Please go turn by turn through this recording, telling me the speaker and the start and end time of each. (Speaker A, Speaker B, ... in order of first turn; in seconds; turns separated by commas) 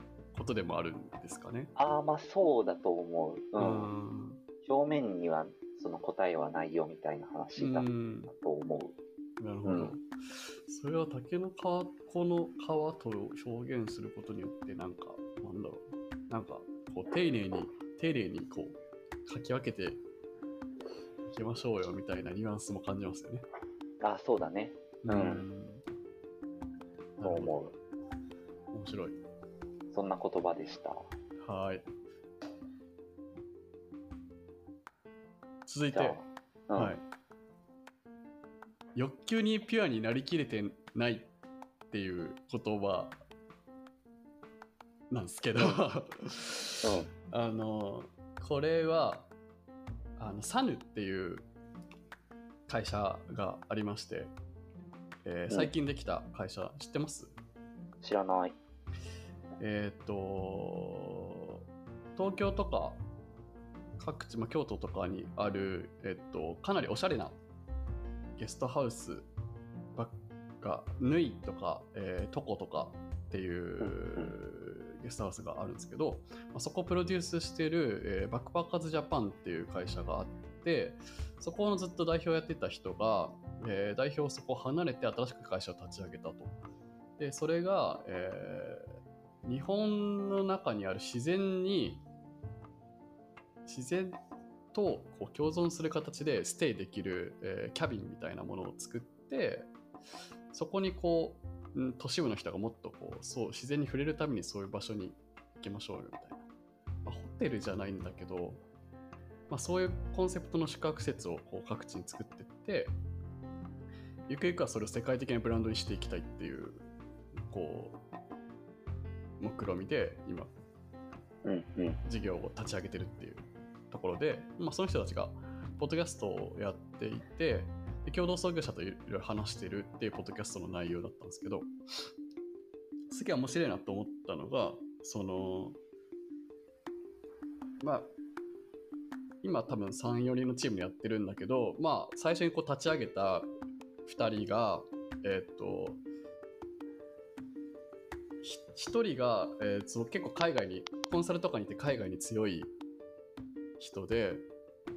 Speaker A: 0.3-1.7, Speaker B: 1.8-3.9, Speaker A: 3.6-4.4, Speaker B: 4.6-8.9, Speaker A: 7.6-8.3, Speaker A: 9.4-18.7, Speaker B: 9.6-9.9, Speaker A: 19.2-20.0, Speaker A: 21.2-23.4, Speaker B: 24.0-25.4, Speaker A: 25.0-25.8, Speaker A: 27.2-27.6, Speaker B: 27.2-27.7, Speaker A: 28.7-29.2, Speaker B: 29.9-31.1, Speaker A: 31.4-31.9, Speaker A: 35.6-36.2, Speaker B: 35.9-36.9, Speaker A: 36.8-37.0, Speaker A: 38.9-41.3, Speaker A: 41.9-43.2, Speaker A: 45.1-49.3, Speaker B: 46.8-47.1, Speaker A: 50.2-51.5, Speaker A: 52.7-54.3, Speaker A: 55.2-57.3, Speaker B: 58.0-58.5, Speaker A: 59.6-61.6, Speaker A: 62.1-63.0, Speaker A: 64.0-67.4, Speaker A: 68.4-69.3, Speaker A: 69.9-86.6, Speaker B: 73.8-74.3, Speaker A: 87.2-92.0, Speaker A: 93.7-94.2, Speaker A: 94.7-99.7, Speaker A: 100.5-106.4, Speaker A: 107.0-108.6, Speaker A: 109.5-113.0, Speaker A: 114.3-118.0, Speaker A: 119.4-120.5, Speaker B: 121.4-122.0, Speaker A: 122.0-131.7, Speaker A: 133.1-135.8, Speaker A: 137.8-138.1, Speaker A: 139.4-143.5, Speaker A: 144.1-146.0, Speaker A: 148.4-152.7, Speaker A: 153.8-154.4